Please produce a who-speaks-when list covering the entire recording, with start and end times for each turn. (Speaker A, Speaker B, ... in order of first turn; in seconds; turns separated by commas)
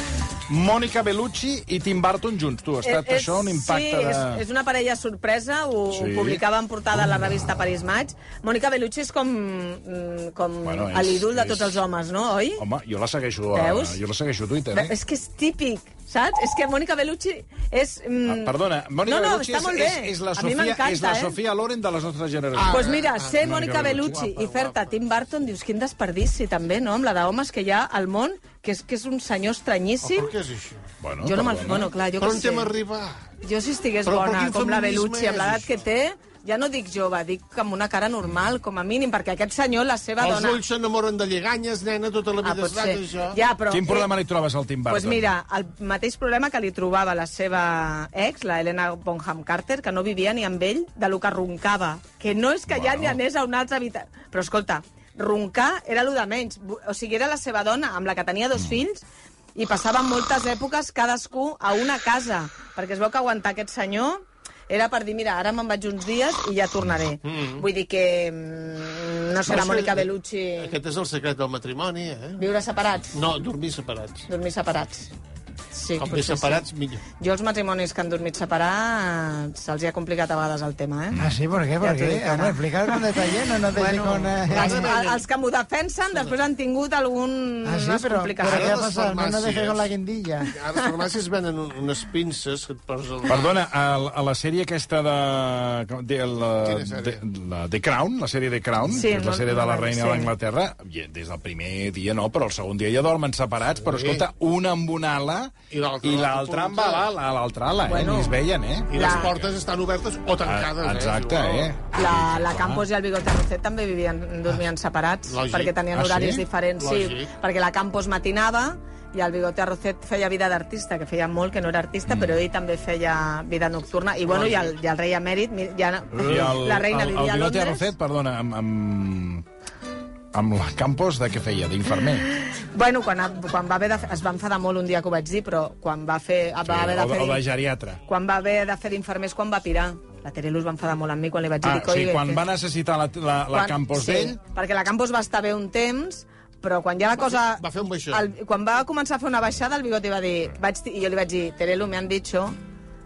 Speaker A: 0.5-4.4, Speaker B: 2.8-12.6, Speaker A: 5.9-6.4, Speaker A: 10.6-11.8, Speaker A: 12.6-14.9, Speaker B: 13.5-14.0, Speaker B: 14.7-21.4, Speaker A: 18.3-22.9, Speaker C: 22.6-24.8, Speaker B: 22.7-30.3, Speaker A: 23.4-24.2, Speaker C: 30.0-30.8, Speaker A: 31.0-31.9, Speaker B: 31.2-32.7, Speaker C: 32.2-33.3, Speaker B: 33.4-40.6, Speaker C: 34.0-35.7, Speaker C: 40.2-43.4, Speaker B: 42.4-44.1, Speaker A: 43.7-45.3, Speaker B: 44.9-59.0, Speaker A: 52.7-53.2, Speaker B: 59.5-70.7, Speaker C: 67.2-67.6, Speaker C: 69.5-72.4, Speaker B: 72.4-73.2, Speaker C: 73.1-74.3, Speaker B: 74.3-75.1, Speaker B: 75.7-81.2, Speaker C: 76.0-77.0, Speaker D: 81.2-84.9, Speaker B: 81.8-83.1, Speaker B: 83.7-88.8, Speaker C: 84.5-85.2, Speaker D: 87.6-90.5, Speaker C: 88.5-89.8, Speaker C: 90.5-93.5, Speaker A: 93.3-109.5, Speaker C: 96.6-97.2, Speaker B: 98.9-100.3, Speaker C: 103.8-104.2, Speaker C: 105.7-107.1, Speaker B: 107.9-108.3, Speaker C: 108.9-111.7, Speaker B: 108.9-109.3, Speaker A: 110.4-112.8, Speaker B: 111.9-127.9, Speaker C: 115.3-115.8, Speaker A: 115.9-116.4, Speaker C: 116.8-117.3, Speaker A: 122.1-122.4, Speaker C: 124.3-124.7, Speaker A: 126.1-129.4, Speaker A: 130.3-132.3, Speaker B: 132.4-137.4, Speaker A: 136.6-138.0, Speaker B: 138.1-142.4, Speaker A: 141.6-144.4, Speaker B: 143.5-152.6, Speaker C: 147.6-148.3